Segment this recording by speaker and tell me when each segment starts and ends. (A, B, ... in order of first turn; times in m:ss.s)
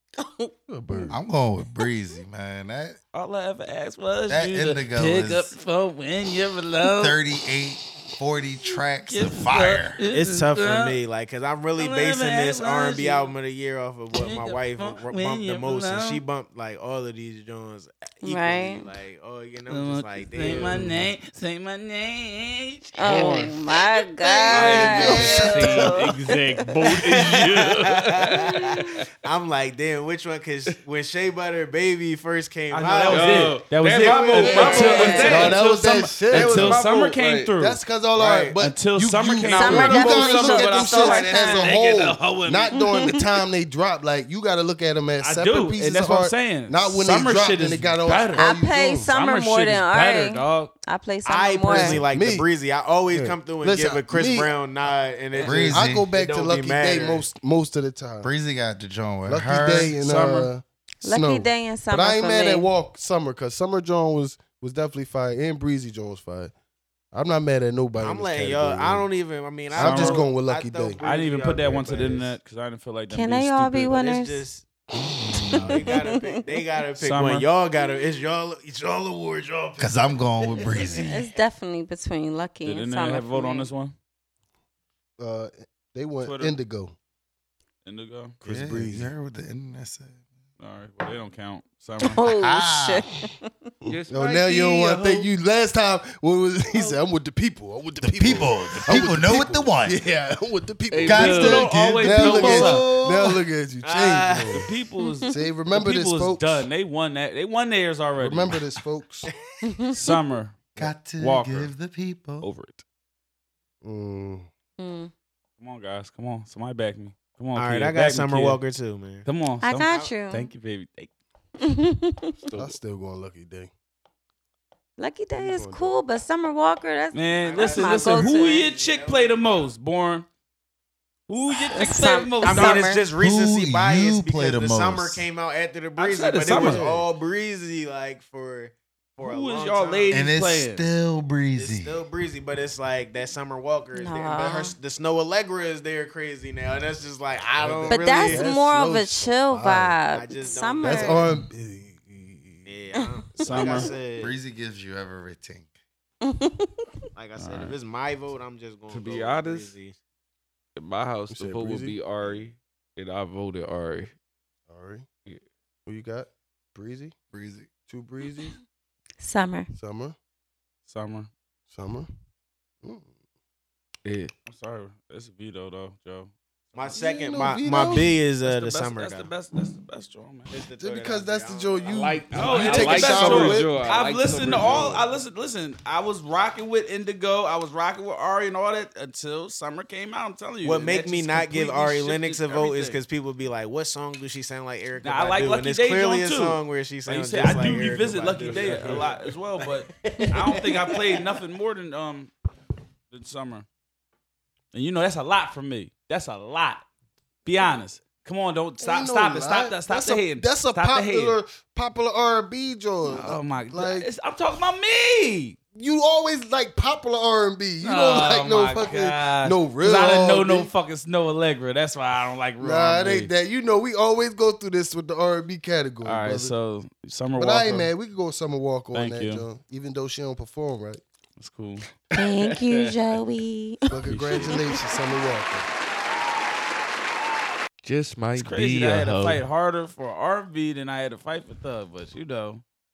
0:00.7-0:01.2 A
0:01.1-0:03.0 B
0:03.1-0:07.2 C
0:04.3-0:05.5 B
0:07.0-0:10.0 B
0:09.1-0:11.0 C
0:10.1-0:20.8 D
0:11.8-0:13.3 C
0:14.1-0:16.2 C
0:18.2-0:18.9 E
0:19.7-0:23.6 C
0:20.4-0:20.7 F
0:20.8-0:21.0 A
0:23.0-0:26.7 E
0:24.4-0:28.3 C
0:24.5-0:27.9 F
0:24.7-0:25.9 A
0:24.8-0:25.2 D
0:27.0-0:35.6 D
0:32.7-0:37.8 C
0:33.1-0:35.6 F
0:34.4-0:35.5 E
0:35.1-0:36.8 A
0:36.2-0:37.5 F
0:37.6-0:49.1 A
0:38.2-0:38.6 D
0:38.6-0:42.8 C
0:39.4-0:41.8 E
0:41.4-0:42.0 F
0:42.7-0:43.3 E
0:45.2-0:48.4 C
0:48.4-0:52.0 E
0:49.1-0:50.7 C
0:51.2-0:57.3 D
0:51.7-0:52.5 A
0:53.1-0:54.5 A
0:55.3-0:55.6 C
0:55.4-0:56.1 B
0:55.7-0:58.3 A
0:58.2-1:00.0 B
0:59.3-1:06.5 A
1:00.0-1:00.5 C
1:01.0-1:02.7 E
1:07.1-1:09.1 A
1:08.0-1:12.4 D
1:09.7-1:11.0 A
1:09.8-1:10.3 C
1:11.0-1:14.0 C
1:13.1-1:14.4 E
1:13.9-1:14.7 D
1:15.4-1:16.4 E
1:15.5-1:21.1 D
1:17.0-1:17.5 C
1:19.8-1:21.2 B
1:21.0-1:23.7 E
1:22.6-1:24.0 C
1:25.2-1:27.0 A
1:26.2-1:26.6 C
1:27.8-1:28.4 C
1:28.4-1:29.1 A
1:28.4-1:30.2 B
1:30.6-1:32.2 C
1:32.0-1:33.5 E
1:32.3-1:33.1 B
1:33.9-1:35.3 F
1:33.9-1:44.7 A
1:38.0-1:40.0 B
1:40.9-1:41.7 F
1:41.0-1:43.4 B
1:41.1-1:42.9 C
1:43.8-1:44.7 D
1:44.5-1:48.6 C
1:45.0-1:45.4 E
1:45.3-1:46.7 A
1:48.2-1:49.3 A
1:49.6-1:50.1 E
1:49.9-1:51.7 C
1:50.8-1:52.5 B
1:52.4-1:52.8 C
1:53.8-1:54.5 A
1:54.8-1:55.1 E
1:55.6-1:58.6 C
1:57.6-1:59.3 D
1:59.2-2:01.1 C
1:59.6-2:00.5 E
1:59.8-2:00.1 D
2:01.6-2:02.4 E
2:02.6-2:03.7 A
2:05.0-2:08.7 E
2:05.4-2:06.0 A
2:07.1-2:10.3 C
2:07.4-2:09.7 D
2:11.3-2:12.9 C
2:11.5-2:13.0 E
2:12.4-2:20.2 D
2:13.2-2:15.3 B
2:16.0-2:16.8 C
2:16.5-2:17.1 A
2:19.2-2:20.9 C
2:20.1-2:22.0 B
2:21.6-2:28.4 D
2:24.0-2:24.8 E
2:27.6-2:30.0 A
2:27.9-2:31.3 E
2:30.1-2:31.2 D
2:30.8-2:32.7 A
2:32.7-2:34.4 D
2:33.4-2:33.8 E
2:33.4-2:33.9 C
2:34.2-2:35.7 B
2:36.2-2:36.7 E
2:37.2-2:40.0 D
2:37.4-2:37.7 C
2:38.9-2:39.7 F
2:40.8-2:44.1 F
2:41.3-2:42.0 A
2:44.7-2:45.1 A
2:45.9-2:47.2 A
2:47.3-2:47.7 B
2:47.9-2:48.6 A
2:49.2-2:49.7 E
2:49.7-2:50.2 A
2:50.9-2:51.3 C
2:51.7-2:52.1 A
2:52.8-2:53.1 A
2:54.0-2:54.3 F
2:54.5-2:56.3 C
2:56.7-2:59.3 D
2:56.9-2:58.2 A
2:58.4-3:00.5 C
3:00.5-3:01.9 D
3:00.8-3:03.7 A
3:01.9-3:05.1 F
3:02.3-3:13.0 C
3:10.6-3:21.3 D
3:15.0-3:22.3 C
3:18.4-3:19.2 F
3:23.1-3:23.7 C
3:24.7-3:26.8 C
3:27.4-3:31.4 C
3:28.8-3:34.1 A
3:33.0-3:35.6 C
3:35.8-3:40.7 A
3:37.8-3:43.3 C
3:42.6-3:46.5 A
3:46.0-3:47.9 C
3:47.4-3:51.0 A
3:48.9-3:49.4 C
3:51.4-3:51.9 C
3:52.1-3:54.8 E
3:52.2-3:52.8 F
3:53.9-3:55.7 A
3:54.1-3:54.6 C
3:57.8-3:59.4 F
3:58.4-4:02.6 C